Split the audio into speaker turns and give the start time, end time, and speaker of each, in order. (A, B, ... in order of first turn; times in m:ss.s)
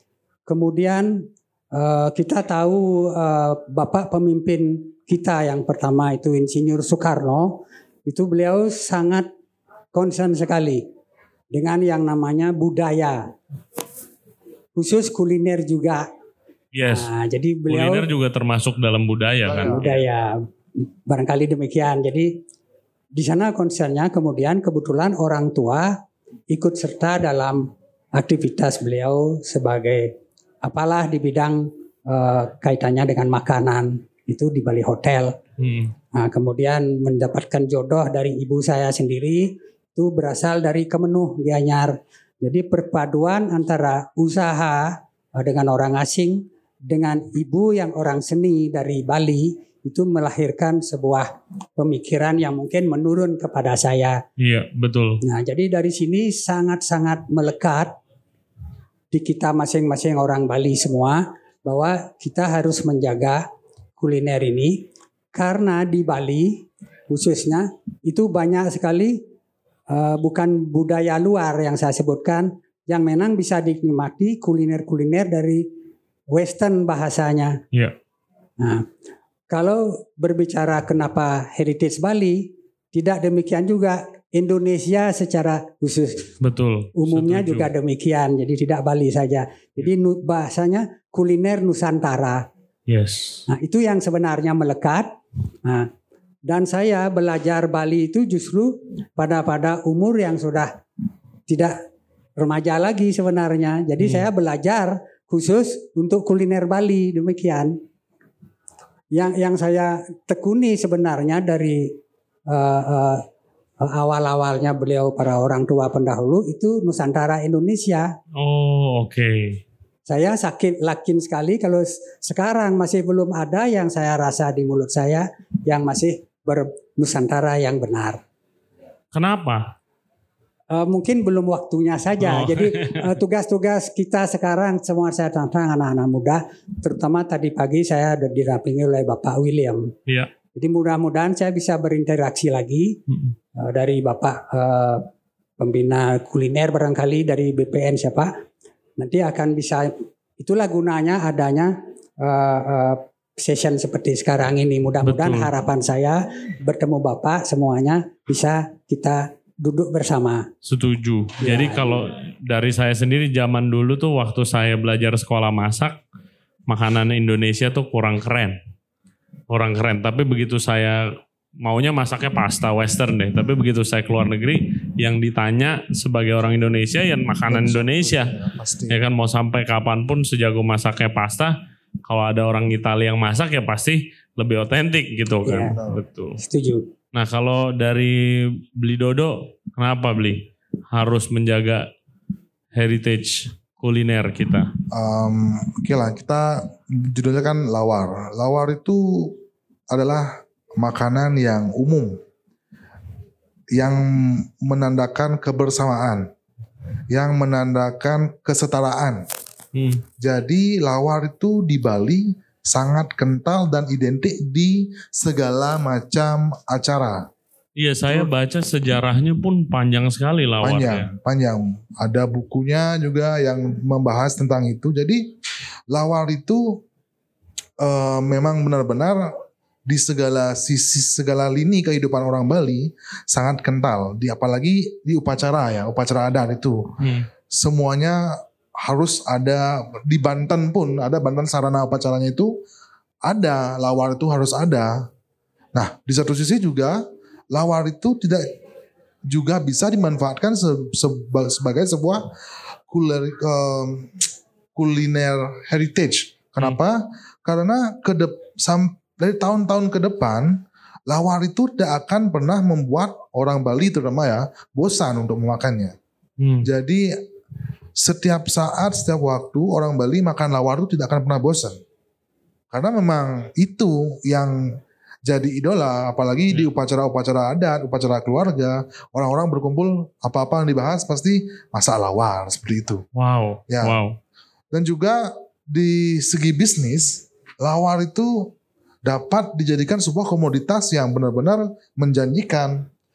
0:00.5-0:09.3 A
0:09.9-0:10.8 A
0:11.5-0:13.2 A
0:14.8-0:16.1 A
0:16.8-0:17.1 B
0:16.9-0:18.1 A
0:17.7-0:20.0 B
0:19.4-0:19.9 C
0:19.6-0:20.4 A
0:21.1-0:22.3 A
0:23.2-0:26.0 A
0:26.5-0:30.1 A
0:30.6-0:35.4 A
0:35.6-0:35.9 B
0:36.1-0:54.2 A
0:54.4-0:55.2 B
0:55.2-0:57.9 A
0:59.1-1:03.4 A
1:04.0-1:04.8 A
1:05.3-1:09.2 A
1:09.9-1:15.6 A
1:16.3-1:17.6 A
1:18.6-1:18.9 A
1:19.5-1:26.3 A
1:26.4-1:27.7 B
1:27.0-1:32.4 A
1:32.9-1:33.4 B
1:33.5-1:35.1 A
1:36.5-1:40.7 A
1:41.5-1:41.8 A
1:42.4-1:47.8 A
1:44.0-1:44.3 B
1:49.1-1:52.0 A
1:52.5-1:53.2 A
1:53.8-1:58.1 A
1:58.4-1:59.6 B
2:00.1-2:08.2 A
2:09.1-2:09.7 B
2:10.7-2:19.9 A
2:12.2-2:13.1 B
2:20.6-2:23.0 A
2:23.1-2:23.3 B
2:23.6-2:25.1 A
2:25.6-2:28.3 A
2:29.0-2:40.5 A
2:35.0-2:35.5 B
2:40.6-2:46.0 B
2:41.4-2:42.0 A
2:46.7-2:48.6 B
2:49.5-2:51.0 B
2:51.6-2:58.3 B
2:57.5-2:59.0 C
2:58.9-3:01.5 B
3:02.1-3:06.4 B
3:05.5-3:05.8 A
3:05.6-3:06.0 C
3:06.4-3:06.9 A
3:07.2-3:11.9 B
3:12.8-3:14.7 B
3:14.9-3:19.4 C
3:19.9-3:22.2 C
3:23.8-3:26.3 C
3:27.1-3:29.2 C
3:29.8-3:30.0 B
3:30.2-3:37.2 C
3:37.8-3:41.1 B
3:40.6-3:45.2 C
3:45.9-3:46.8 C
3:47.8-3:49.3 C
3:49.9-3:56.8 C
3:57.0-3:57.3 B
3:57.5-4:02.5 C
4:03.3-4:05.0 C
4:05.8-4:07.0 C
4:07.5-4:08.5 C
4:09.3-4:12.2 C
4:12.9-4:14.2 C
4:14.8-4:26.0 C
4:26.4-4:26.7 B
4:26.6-4:27.0 C
4:28.0-4:31.8 C
4:32.7-4:34.6 C
4:35.3-4:43.0 C
4:43.2-4:44.2 B
4:43.7-4:44.0 C
4:44.7-4:48.5 C
4:49.0-4:52.9 C